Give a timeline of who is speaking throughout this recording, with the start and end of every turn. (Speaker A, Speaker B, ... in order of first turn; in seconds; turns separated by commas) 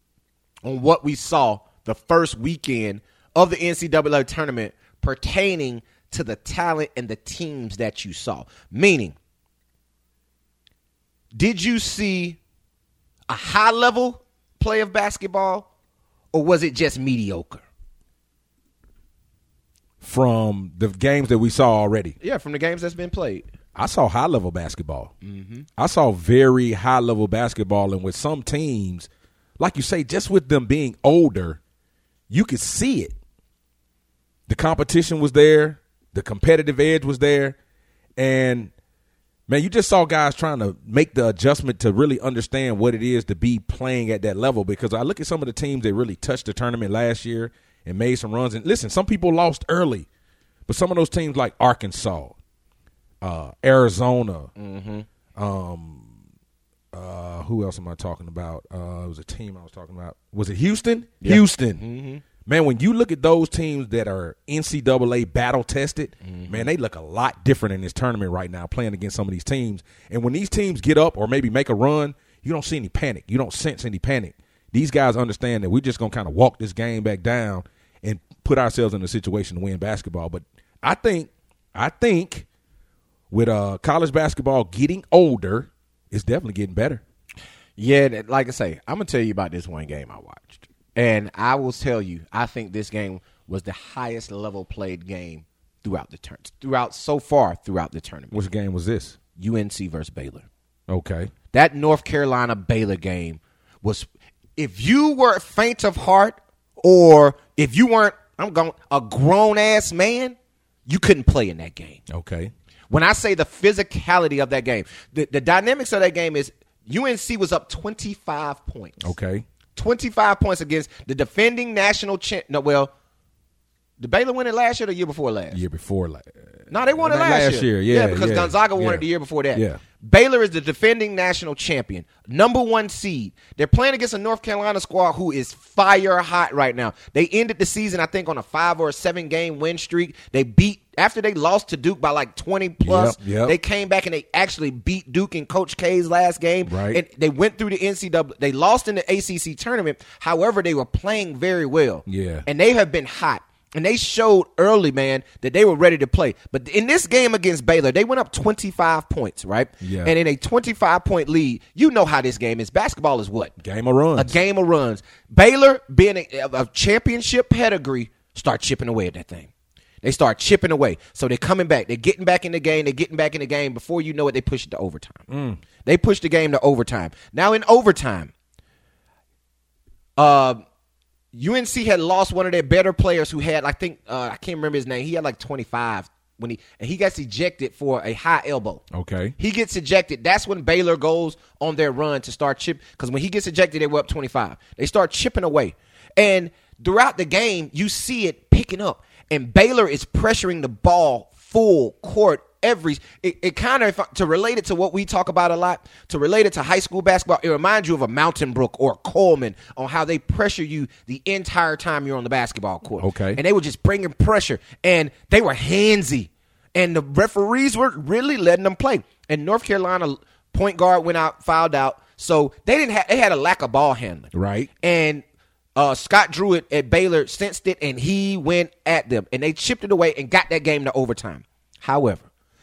Speaker A: 0.6-9.2, Speaker A: 11.3-12.4, Speaker A: 13.3-15.7, Speaker A: 16.3-17.6, Speaker B: 20.0-22.1, Speaker A: 22.2-23.5, Speaker B: 23.7-25.1, Speaker A: 25.2-25.6, Speaker B: 25.8-29.1, Speaker B: 29.6-31.6, Speaker B: 32.3-33.1, Speaker B: 34.5-37.5, Speaker B: 38.2-38.7, Speaker B: 39.5-50.1, Speaker B: 50.7-52.3, Speaker B: 53.2-54.5, Speaker A: 54.5-55.0, Speaker B: 55.4-56.1, Speaker B: 56.9-61.8, Speaker A: 61.2-62.2, Speaker B: 62.4-82.5, Speaker A: 66.2-66.6, Speaker B: 83.3-87.0, Speaker A: 87.8-98.4, Speaker B: 98.3-99.2, Speaker A: 99.3-100.5, Speaker B: 100.9-101.3, Speaker A: 101.5-110.3, Speaker A: 110.9-112.0, Speaker B: 112.1-112.5, Speaker A: 112.9-119.0, Speaker B: 119.0-119.4, Speaker A: 119.8-122.9, Speaker A: 124.0-125.6, Speaker B: 125.5-129.8, Speaker A: 126.7-163.5, Speaker B: 142.8-143.5, Speaker B: 146.7-147.0, Speaker B: 152.1-152.4, Speaker B: 159.8-160.1, Speaker B: 163.6-164.3, Speaker A: 164.1-169.5, Speaker A: 170.0-175.3, Speaker B: 175.3-175.6, Speaker A: 175.8-178.3, Speaker A: 180.2-180.6, Speaker A: 181.3-188.8, Speaker B: 188.9-189.3, Speaker A: 189.4-225.2, Speaker B: 213.0-213.4, Speaker B: 224.3-224.7, Speaker A: 225.8-232.2